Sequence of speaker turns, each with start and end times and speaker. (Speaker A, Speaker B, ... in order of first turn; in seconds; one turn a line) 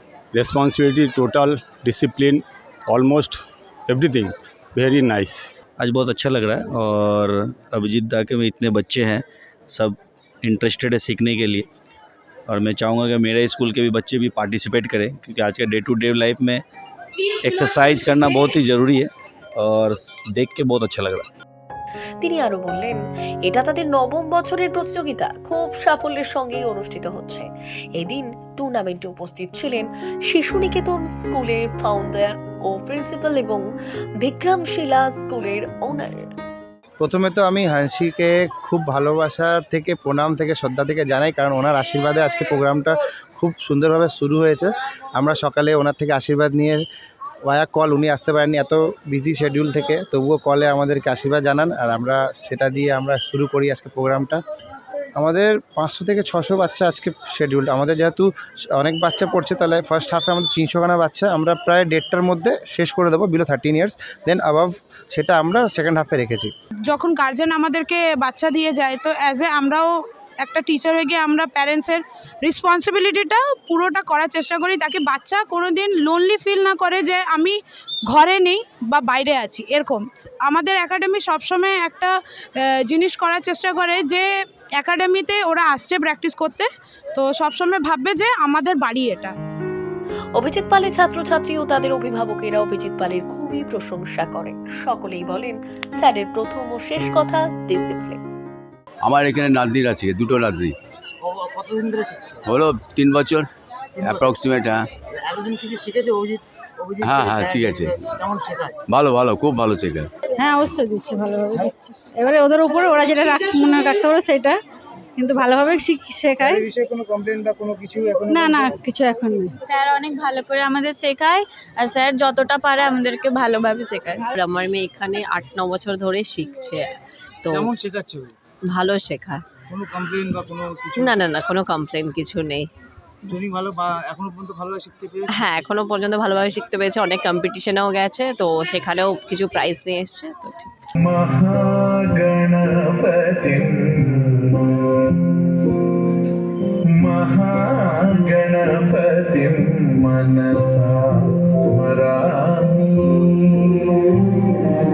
Speaker A: 0.3-5.5
Speaker B: 5.8-11.7
Speaker B: 12.5-16.6
Speaker B: 17.4-21.3
Speaker C: 22.2-33.6
Speaker C: 34.2-36.2
Speaker D: 37.0-46.8
Speaker D: 47.5-54.4
Speaker D: 55.2-66.5
Speaker E: 66.9-69.9
Speaker E: 70.4-77.5
Speaker E: 78.1-82.1
Speaker E: 82.9-84.2
Speaker E: 84.8-89.3
Speaker C: 90.4-98.2
Speaker F: 99.0-100.8
Speaker G: 101.3-102.4
Speaker F: 102.5-103.5
Speaker G: 104.0-104.3
Speaker F: 104.0-104.9
Speaker G: 105.3-108.8
Speaker F: 107.1-107.9
Speaker F: 108.9-110.1
Speaker H: 110.4-114.6
Speaker H: 115.2-116.7
Speaker G: 116.4-118.7
Speaker H: 118.3-119.6
Speaker I: 119.6-124.2
Speaker J: 123.6-126.9
Speaker J: 127.4-127.7
Speaker G: 127.5-128.3
Speaker J: 128.7-129.4
Speaker G: 129.7-131.1
Speaker J: 131.0-132.7
Speaker G: 133.3-135.3
Speaker J: 135.3-140.7
Speaker K: 141.0-145.7
Speaker K: 146.9-154.5